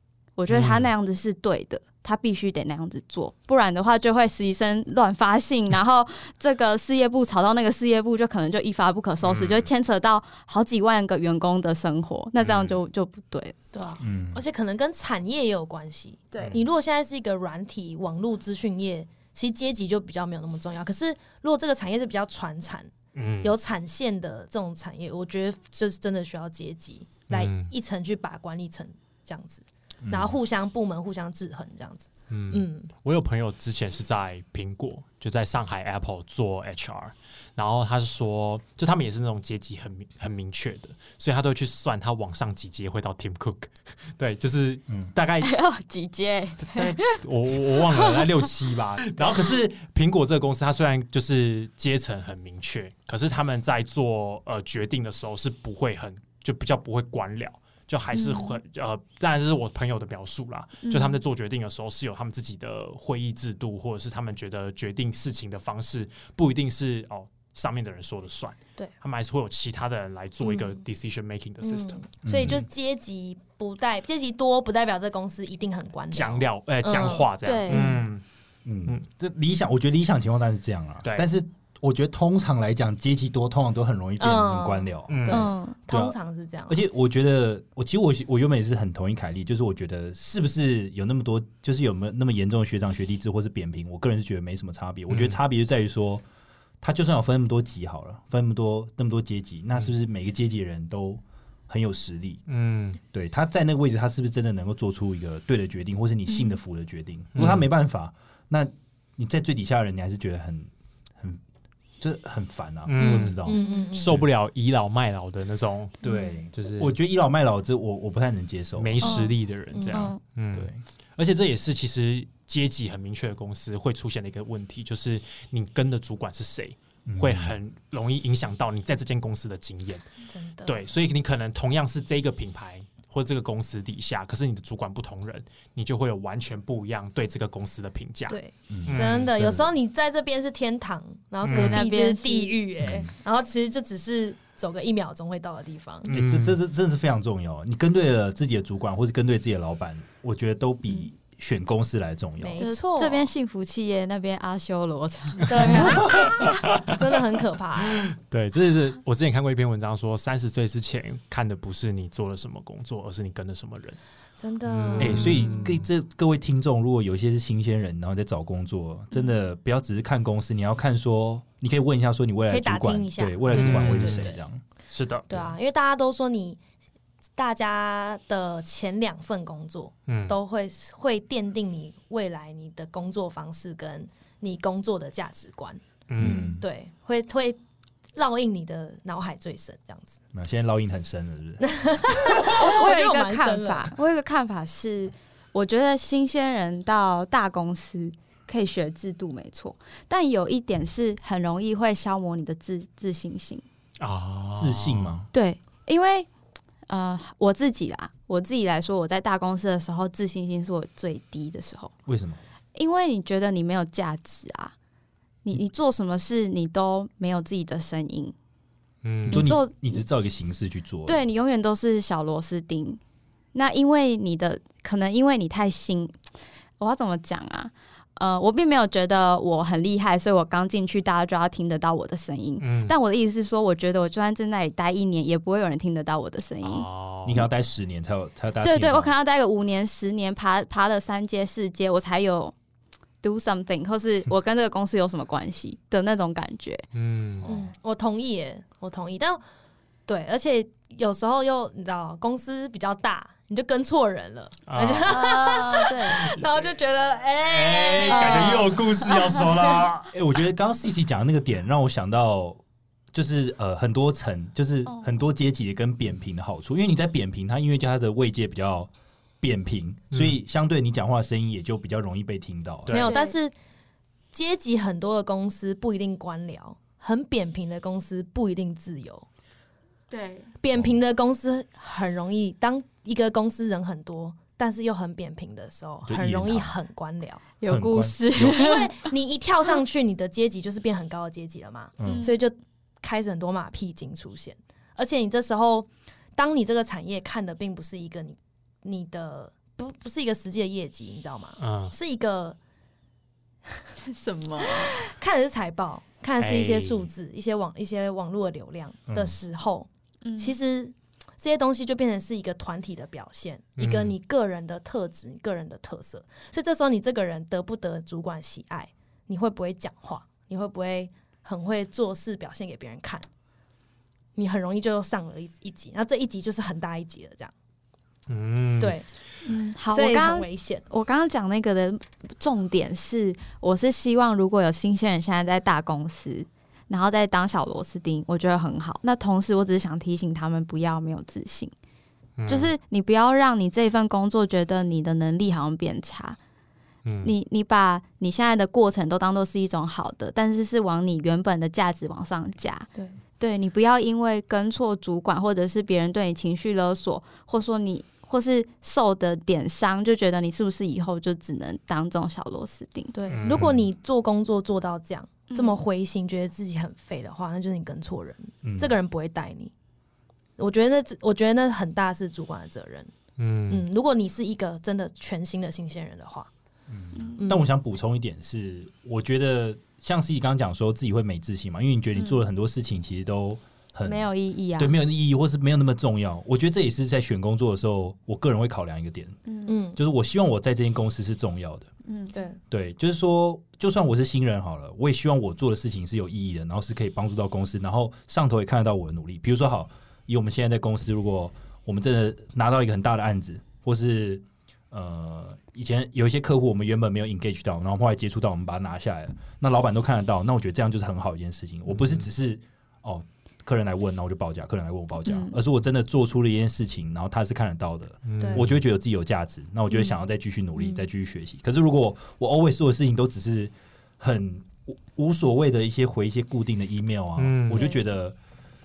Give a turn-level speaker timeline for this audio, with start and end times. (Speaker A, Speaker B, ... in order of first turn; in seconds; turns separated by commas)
Speaker A: 0.4-13.6, Speaker B: 0.5-0.9, Speaker B: 9.2-9.7, Speaker B: 12.4-12.8, Speaker C: 13.7-22.9, Speaker D: 14.0-14.4, Speaker B: 16.4-16.6, Speaker B: 23.1-23.6, Speaker C: 23.4-32.9, Speaker B: 27.3-27.7, Speaker D: 30.0-30.4, Speaker B: 32.3-45.5, Speaker A: 45.4-47.2, Speaker B: 46.7-72.6, Speaker A: 47.8-48.5, Speaker A: 58.1-58.6, Speaker A: 60.8-61.2, Speaker C: 70.4-70.8, Speaker C: 71.6-78.0, Speaker D: 72.2-72.6, Speaker B: 76.1-78.2, Speaker A: 77.4-78.0, Speaker D: 78.7-86.2, Speaker C: 84.2-86.8, Speaker B: 85.1-85.5, Speaker A: 85.3-85.8, Speaker D: 86.7-96.2, Speaker B: 95.1-95.4, Speaker D: 96.8-102.4, Speaker B: 102.5-103.0, Speaker D: 103.1-111.4, Speaker A: 106.3-106.6, Speaker B: 107.3-107.7, Speaker D: 112.0-114.3, Speaker B: 112.9-117.0, Speaker C: 113.0-114.2, Speaker A: 113.6-113.8, Speaker D: 116.0-119.1, Speaker A: 116.1-116.3, Speaker B: 118.8-130.1, Speaker A: 119.0-119.3, Speaker C: 119.0-120.1, Speaker A: 119.9-120.2, Speaker D: 120.5-120.8, Speaker D: 127.1-127.5, Speaker C: 130.3-130.8, Speaker B: 130.7-139.3, Speaker C: 138.3-146.1, Speaker D: 138.7-139.7, Speaker B: 141.4-141.8, Speaker A: 141.5-142.6, Speaker D: 142.8-143.1, Speaker B: 146.1-146.6, Speaker D: 146.1-152.7, Speaker C: 152.4-153.3, Speaker A: 152.6-156.5, Speaker C: 155.4-158.1, Speaker B: 155.8-157.0, Speaker B: 158.0-164.0, Speaker C: 164.4-165.6, Speaker B: 164.7-165.9, Speaker D: 165.0-174.6, Speaker C: 172.5-174.4, Speaker B: 173.5-174.3, Speaker B: 174.9-175.3, Speaker C: 175.3-176.6, Speaker C: 177.4-187.6, Speaker B: 180.1-180.4, Speaker B: 186.1-186.5, Speaker D: 186.2-186.6, Speaker C: 188.2-190.2, Speaker D: 190.3-192.4, Speaker C: 191.6-193.9, Speaker A: 192.5-203.6, Speaker B: 204.0-205.2, Speaker D: 204.6-205.3, Speaker A: 205.3-206.3, Speaker A: 206.9-211.9, Speaker D: 212.1-212.4, Speaker A: 212.8-214.7, Speaker A: 215.4-218.3, Speaker B: 219.0-219.5, Speaker A: 219.3-220.0, Speaker D: 219.3-221.2, Speaker A: 221.1-223.0, Speaker A: 223.5-226.2, Speaker A: 226.8-236.9, Speaker B: 232.6-232.9, Speaker B: 236.6-237.5, Speaker D: 237.2-239.1, Speaker A: 238.6-242.6, Speaker A: 243.2-246.8, Speaker B: 246.9-247.5, Speaker C: 247.4-249.4, Speaker C: 250.1-259.2, Speaker B: 254.7-255.5, Speaker A: 255.1-256.2, Speaker B: 257.4-260.1, Speaker A: 258.0-258.8, Speaker D: 260.1-262.6, Speaker D: 263.1-268.9, Speaker A: 264.9-265.1, Speaker D: 269.4-273.0, Speaker B: 270.1-270.4, Speaker B: 272.9-273.1, Speaker C: 272.9-273.5, Speaker A: 273.0-273.4, Speaker C: 274.3-279.3, Speaker A: 280.1-280.5, Speaker C: 280.6-287.4, Speaker D: 286.1-286.8, Speaker A: 287.6-288.9, Speaker D: 287.7-288.7, Speaker C: 288.5-302.6, Speaker D: 292.0-292.3, Speaker A: 292.0-292.3, Speaker B: 301.6-301.9, Speaker A: 304.0-305.0, Speaker C: 304.9-323.3, Speaker B: 306.4-307.1, Speaker D: 309.1-309.4, Speaker A: 310.2-310.6, Speaker B: 313.8-314.1, Speaker C: 324.4-327.5, Speaker B: 328.3-329.0, Speaker C: 328.8-329.1, Speaker A: 329.4-341.7, Speaker C: 329.9-330.9, Speaker B: 342.4-342.7, Speaker A: 342.5-346.4, Speaker B: 347.1-347.3, Speaker A: 347.2-352.9, Speaker A: 353.4-363.1, Speaker C: 363.1-369.7, Speaker B: 363.3-363.8, Speaker A: 365.5-365.8, Speaker D: 368.6-369.0, Speaker C: 370.6-373.1, Speaker B: 373.4-373.9, Speaker C: 373.7-376.5, Speaker D: 376.9-389.4, Speaker A: 377.1-377.4, Speaker C: 377.4-377.7, Speaker A: 382.2-382.4, Speaker A: 384.1-385.0, Speaker C: 389.7-390.0, Speaker D: 390.0-391.9, Speaker A: 392.1-392.3, Speaker C: 392.3-392.6, Speaker D: 392.7-428.4, Speaker B: 411.9-412.2, Speaker A: 415.2-415.6, Speaker B: 418.3-418.8, Speaker C: 418.4-418.7, Speaker C: 420.8-421.1, Speaker B: 427.4-427.9, Speaker A: 427.7-428.0